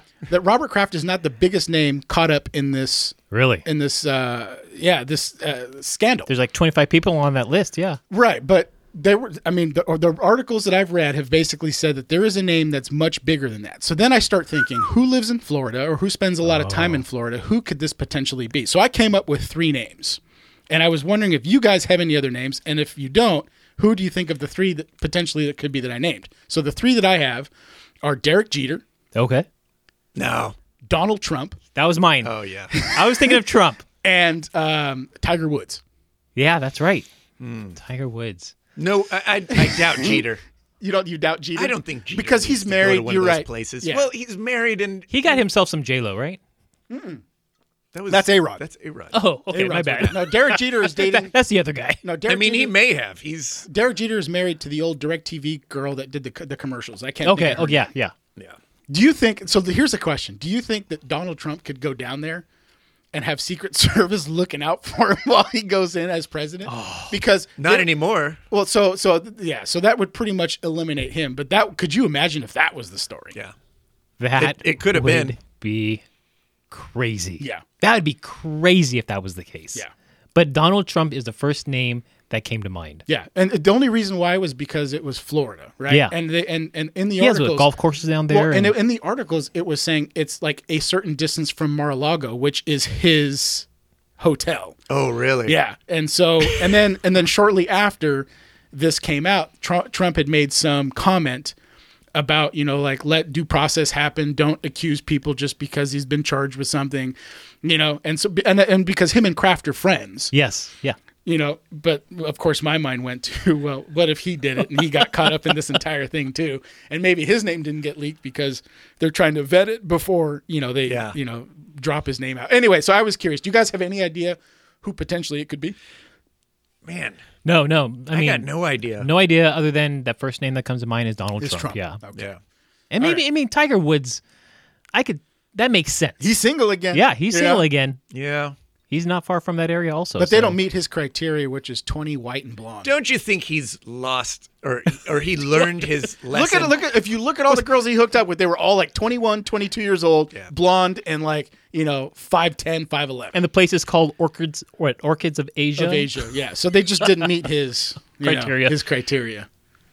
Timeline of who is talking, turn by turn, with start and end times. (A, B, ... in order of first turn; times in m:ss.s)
0:00.3-0:06.3 A
0:03.3-0:03.6 B
0:06.3-0:08.0 B
0:08.1-0:27.5 A
0:16.4-0:17.0 B
0:28.0-0:28.8 A
0:29.2-0:29.5 B
0:30.2-0:30.6 C
0:30.9-0:31.6 A
0:31.8-0:33.8 B
0:32.2-0:32.7 C
0:32.7-0:33.4 A
0:34.0-0:35.8 A
0:36.4-0:37.1 B
0:37.4-0:37.8 C
0:37.8-0:38.5 B
0:38.8-0:40.4 C
0:39.7-0:40.2 A
0:40.8-0:44.1 A
0:41.6-0:45.4 C
0:45.1-0:46.4 B
0:46.9-0:47.2 A
0:47.9-0:49.2 C
0:48.1-0:48.6 A
0:49.1-0:52.0 B
0:49.5-0:51.3 A
0:49.7-0:50.1 C
0:52.0-0:52.8 A
0:52.3-0:53.7 C
0:53.7-0:57.9 A
0:57.2-0:58.1 B
0:58.9-1:02.4 A
1:03.1-1:07.9 A
1:06.7-1:07.2 B
1:07.6-1:08.4 C
1:08.5-1:13.4 A
1:14.2-1:16.0 B
1:14.4-1:15.4 C
1:16.7-1:19.8 B
1:20.4-1:23.0 B
1:23.1-1:27.7 A
1:25.9-1:26.1 B
1:27.2-1:28.7 B
1:28.3-1:33.7 A
1:34.2-1:34.8 A
1:34.9-1:35.6 C
1:35.5-1:41.5 A
1:42.2-1:50.3 A
1:50.3-1:51.0 B
1:51.2-2:05.8 A
2:00.9-2:01.2 C
2:06.8-2:07.2 C
2:07.4-2:08.5 B
2:08.1-2:09.1 C
2:09.0-2:12.0 B
2:11.4-2:12.3 A
2:12.9-2:14.2 B
2:14.9-2:16.2 B
2:16.2-2:17.6 A
2:16.9-2:18.0 B
2:18.1-2:18.6 C
2:18.9-2:20.6 B
2:20.2-2:22.9 A
2:22.8-2:26.8 C
2:26.3-2:33.4 A
2:33.3-2:36.1 B
2:35.8-2:39.5 A
2:38.2-2:38.8 B